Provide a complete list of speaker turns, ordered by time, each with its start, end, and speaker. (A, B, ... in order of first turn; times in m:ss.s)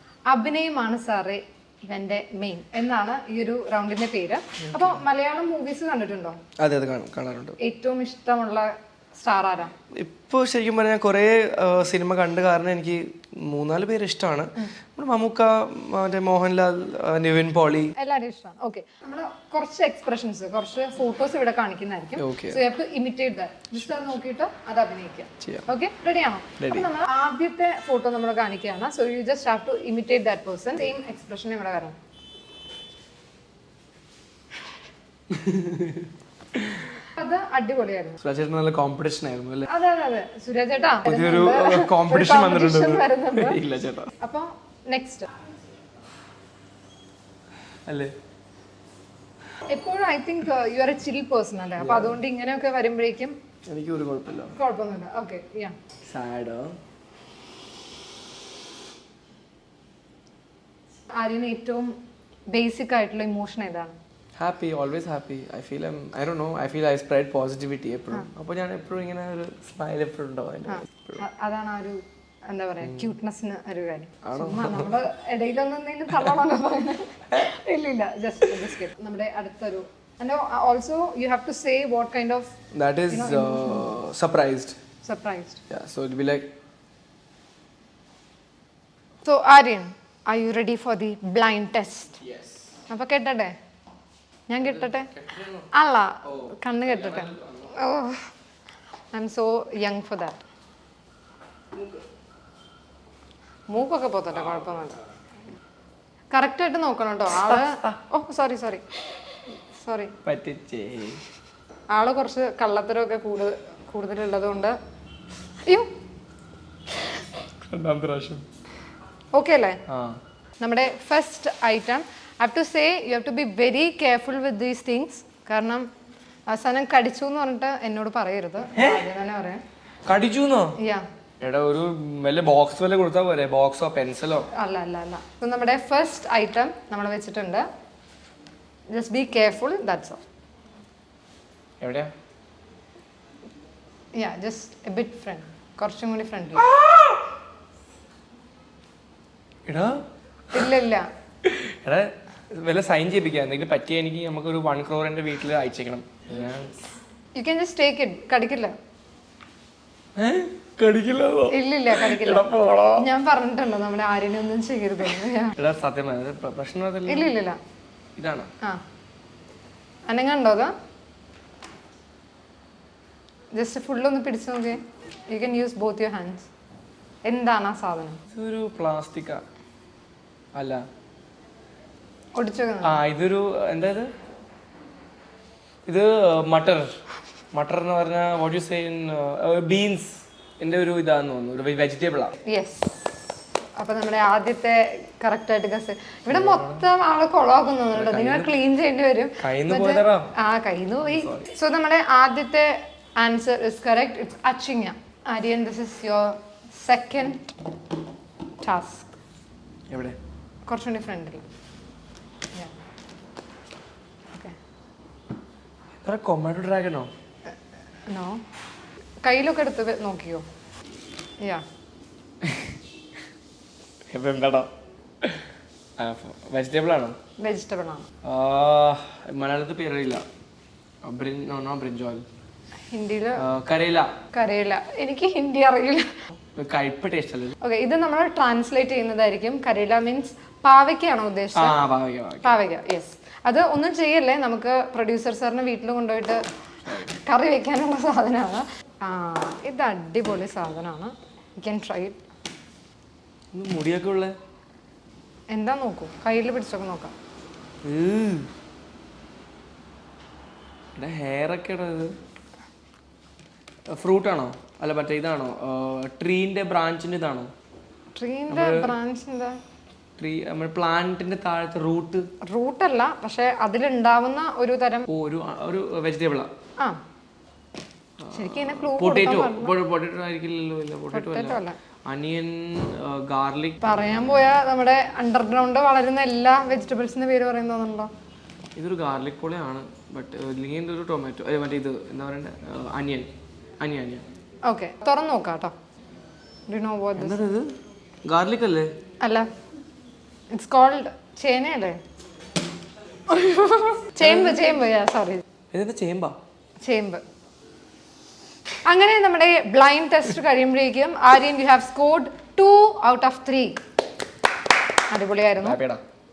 0:00.3-0:06.4 A
0:04.6-0:05.0 B
0:06.6-0:07.6 B
0:07.6-0:09.7 A
0:10.0-0:18.0 B
0:18.0-0:32.0 A
0:22.2-0:22.6 B
0:26.6-0:26.9 B
0:35.3-0:37.0 B
0:37.1-0:38.2 A
0:38.2-0:39.7 B
0:39.7-0:43.6 A
0:41.0-0:44.1 B
0:44.2-0:45.3 A
0:47.9-0:48.1 B
0:49.7-0:53.4 A
0:51.8-0:52.2 B
0:53.7-0:54.6 B
0:54.6-0:55.8 A
0:56.1-0:56.8 B
1:01.2-1:01.9 A
1:02.5-1:04.0 A
1:04.4-1:11.3 B
1:10.7-1:22.6 A
1:14.2-1:15.0 B
1:22.7-1:24.8 B
1:23.1-1:23.9 A
1:25.0-1:25.6 A
1:25.7-1:26.5 B
1:29.2-1:32.2 A
1:32.2-1:32.7 B
1:32.9-1:33.5 A
1:34.5-1:35.1 A
1:34.6-1:35.7 B
1:35.7-1:38.3 A
1:36.2-1:37.8 B
1:39.1-1:40.4 A
1:41.8-1:42.0 B
1:43.7-1:45.0 A
1:44.4-1:44.7 B
1:46.3-1:48.8 A
1:49.8-1:50.2 A
1:50.2-1:51.2 B
1:51.9-1:54.8 A
1:55.7-1:55.9 A
1:57.6-1:58.4 B
1:59.3-1:59.8 A
1:59.9-2:00.2 B
2:00.6-2:05.9 A
2:06.5-2:09.6 A
2:08.8-2:09.1 B
2:10.1-2:10.8 B
2:10.8-2:11.1 A
2:11.4-2:14.5 B
2:14.5-2:17.7 A
2:18.9-2:20.2 A
2:21.8-2:22.1 B
2:24.2-2:26.7 A
2:26.6-2:27.3 B
2:29.7-2:30.0 B
2:30.5-2:31.1 A
2:31.4-2:36.8 B
2:37.4-2:38.7 A
2:40.2-2:43.1 B
2:41.5-2:45.6 A
2:45.6-2:47.3 B
2:47.1-2:47.6 A
2:48.2-2:48.5 B
2:50.1-2:50.7 A
2:53.5-2:56.5 A
2:57.2-2:58.2 A
2:58.3-2:59.4 B
3:00.5-3:00.8 B
3:02.4-3:03.0 A
3:02.8-3:04.1 B
3:05.9-3:07.0 B
3:07.5-3:12.4 B
3:12.4-3:13.1 A
3:13.8-3:27.6 A
3:16.3-3:16.8 B
3:17.9-3:18.5 B
3:19.4-3:20.3 B
3:21.1-3:21.5 B
3:28.6-3:29.1 A
3:29.9-3:30.2 B
3:30.7-3:31.4 A
3:36.0-3:37.1 B
3:38.1-3:38.4 A
3:39.2-3:40.5 A
3:42.4-3:42.7 B
3:44.1-3:44.7 B
3:45.2-3:45.5 B
3:46.0-3:47.2 B
3:47.4-3:48.1 A
3:48.2-3:50.2 B
3:51.0-3:52.2 B
3:52.9-3:53.4 A
3:53.4-3:54.1 B
3:54.3-3:56.3 A
3:56.6-3:57.6 B
3:57.6-4:01.8 A
4:01.5-4:02.6 B
4:02.4-4:12.2 A
4:13.5-4:14.4 B
4:15.5-4:17.1 A
4:17.8-4:18.5 B
4:21.0-4:22.1 B
4:23.9-4:27.5 B
4:28.2-4:29.6 A
4:28.5-4:29.0 B
4:30.2-4:32.3 B
4:32.5-4:35.1 A
4:35.1-4:36.5 B
4:38.2-4:43.9 B
4:38.3-4:39.8 A
4:41.1-4:41.8 A
4:43.8-4:48.1 A
4:48.8-4:54.2 B
4:54.7-4:55.7 A
4:56.7-4:57.4 A
4:57.2-4:57.7 B
4:58.2-4:58.9 B
4:59.2-4:59.5 A
5:00.5-5:02.0 A
5:03.3-5:05.4 A
5:04.2-5:04.6 B
5:05.7-5:06.4 B
5:06.8-5:07.2 A
5:08.8-5:13.8 A
5:15.1-5:15.8 A
5:15.6-5:16.0 B